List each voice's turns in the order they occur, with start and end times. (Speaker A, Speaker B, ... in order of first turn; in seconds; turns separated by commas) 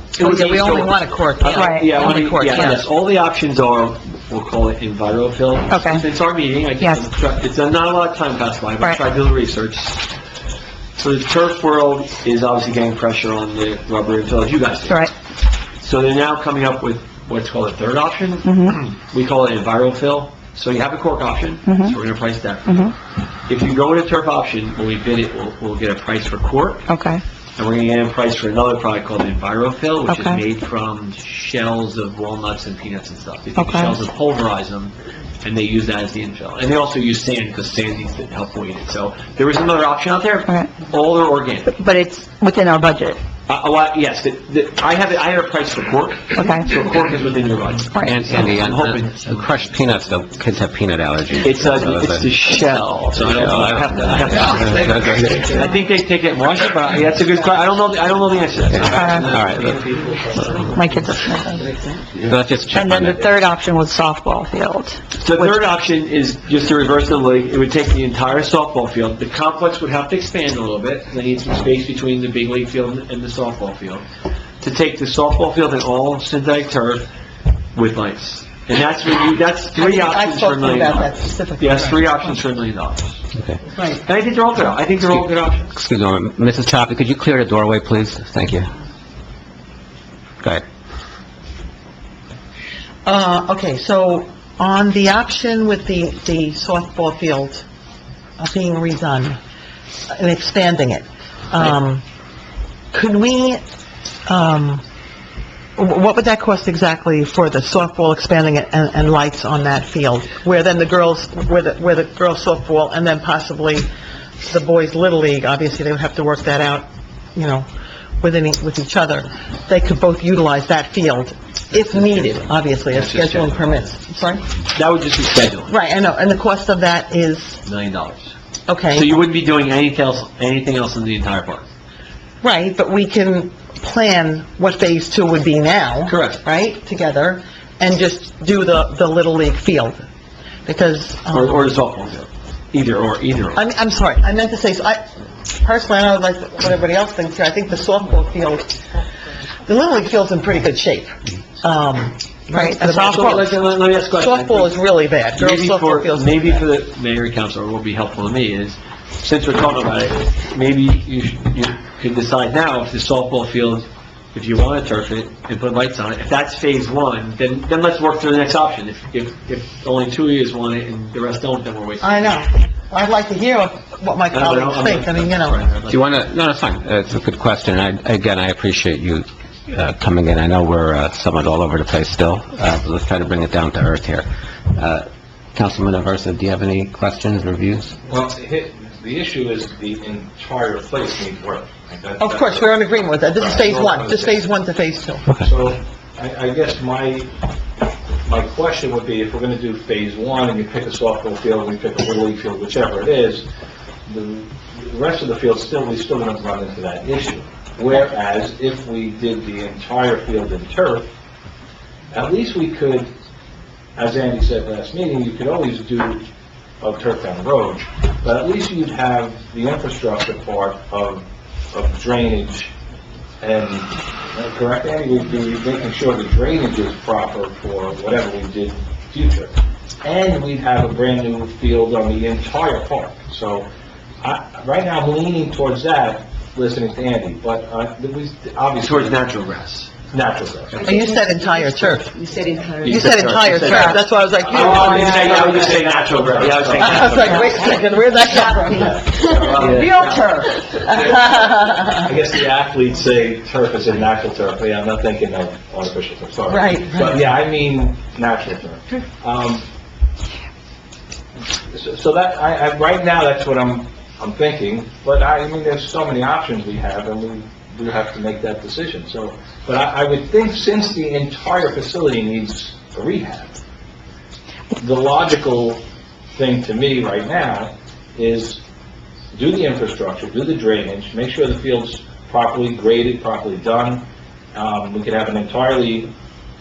Speaker A: 0.1-2.9, Speaker B: 0.2-10.1, Speaker C: 1.6-2.1, Speaker C: 5.7-6.0, Speaker C: 6.8-7.0, Speaker B: 11.0-15.0, Speaker C: 14.8-15.1, Speaker B: 15.8-23.0, Speaker C: 18.4-18.8, Speaker C: 21.6-22.0, Speaker C: 22.7-22.9, Speaker B: 23.5-26.9, Speaker C: 26.9-27.2, Speaker B: 27.6-41.8, Speaker C: 30.1-30.4, Speaker C: 33.6-34.0, Speaker C: 40.5-40.8, Speaker C: 41.7-43.2, Speaker B: 43.5-49.5, Speaker C: 46.4-46.8, Speaker D: 48.0-52.4, Speaker B: 51.4-60.7, Speaker D: 53.3-55.6, Speaker C: 58.9-59.4, Speaker D: 59.2-59.9, Speaker C: 60.7-61.8, Speaker D: 62.2-63.3, Speaker C: 62.7-65.6, Speaker B: 65.2-74.0, Speaker B: 74.6-77.1, Speaker B: 77.8-83.2, Speaker A: 79.7-82.2, Speaker A: 83.7-84.0, Speaker B: 84.0-85.7, Speaker D: 85.7-88.7, Speaker A: 93.0-97.7, Speaker A: 98.4-99.4, Speaker A: 100.1-102.0, Speaker A: 102.9-103.6, Speaker A: 104.3-104.8, Speaker A: 105.8-113.9, Speaker A: 114.4-117.7, Speaker A: 118.2-124.5, Speaker B: 121.9-123.9, Speaker B: 124.7-125.7, Speaker A: 125.7-127.6, Speaker B: 127.7-128.3, Speaker A: 128.7-129.1, Speaker B: 128.9-131.7, Speaker A: 132.4-140.0, Speaker B: 136.1-136.4, Speaker A: 140.7-141.8, Speaker B: 141.3-143.6, Speaker A: 143.6-145.1, Speaker A: 145.6-148.7, Speaker A: 149.7-156.7, Speaker C: 152.5-152.8, Speaker B: 152.8-154.8, Speaker B: 155.3-172.4, Speaker A: 172.0-175.6, Speaker B: 174.3-176.2, Speaker D: 175.9-187.9, Speaker E: 188.1-194.4, Speaker A: 192.2-195.3, Speaker E: 195.4-197.3, Speaker E: 198.3-203.5, Speaker E: 204.1-211.1, Speaker E: 212.1-213.1, Speaker E: 214.0-216.3, Speaker E: 216.8-222.7, Speaker E: 223.4-229.5, Speaker E: 230.0-233.7, Speaker E: 234.2-239.2, Speaker B: 238.8-239.9, Speaker E: 240.1-240.9, Speaker A: 240.8-242.1, Speaker C: 242.4-242.7, Speaker B: 242.8-247.7, Speaker A: 242.8-245.6, Speaker E: 244.5-247.5, Speaker A: 246.8-252.1, Speaker E: 248.8-250.1, Speaker B: 249.5-250.2, Speaker E: 252.0-259.7, Speaker A: 256.5-257.2, Speaker E: 261.7-273.5, Speaker E: 274.8-275.8, Speaker E: 276.4-278.6, Speaker E: 279.3-286.1